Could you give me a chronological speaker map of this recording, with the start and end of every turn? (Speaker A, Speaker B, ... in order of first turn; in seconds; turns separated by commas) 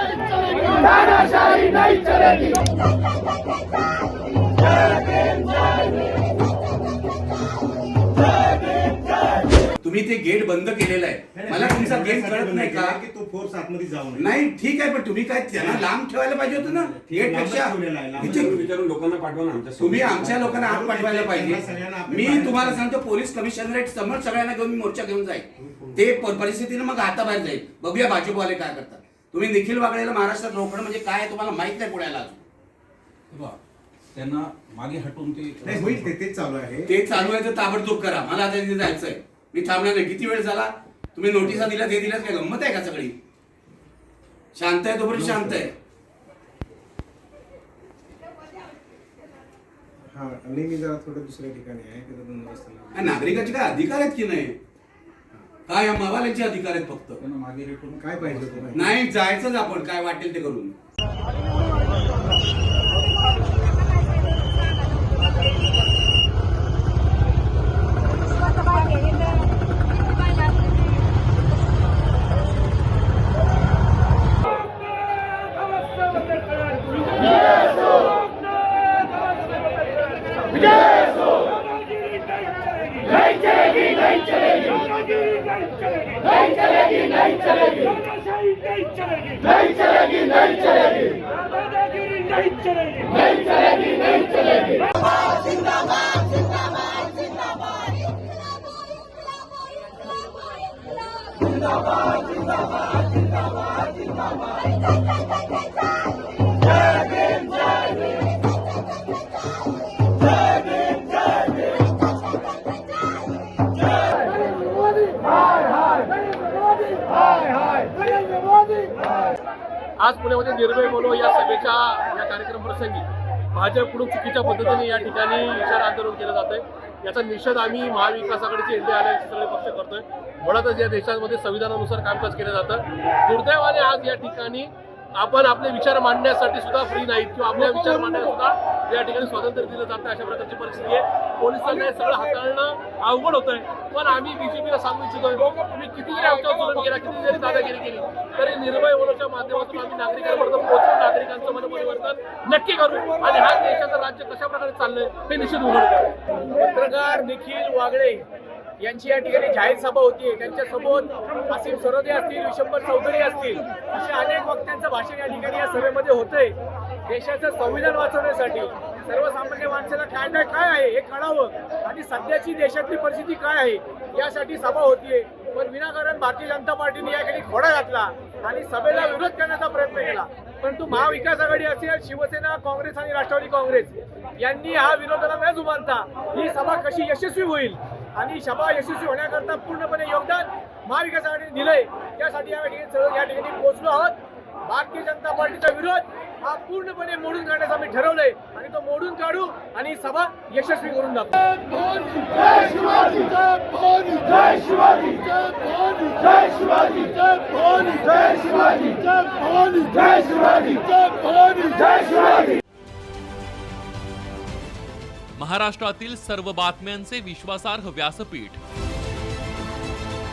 Speaker A: 9.8-13.0, Speaker A: 14.1-18.6, Speaker B: 18.2-20.6, Speaker A: 19.8-32.4, Speaker C: 33.3-33.6, Speaker C: 34.1-36.1, Speaker D: 35.6-36.9, Speaker A: 36.9-43.1, Speaker A: 44.5-45.7, Speaker D: 45.1-45.6, Speaker D: 50.1-53.5, Speaker A: 52.9-54.5, Speaker A: 55.7-57.2, Speaker C: 57.2-58.7, Speaker D: 58.0-58.9, Speaker A: 58.7-60.7, Speaker E: 120.0-156.1, Speaker F: 156.5-158.2, Speaker F: 158.8-201.6, Speaker F: 202.2-203.2, Speaker G: 215.3-218.6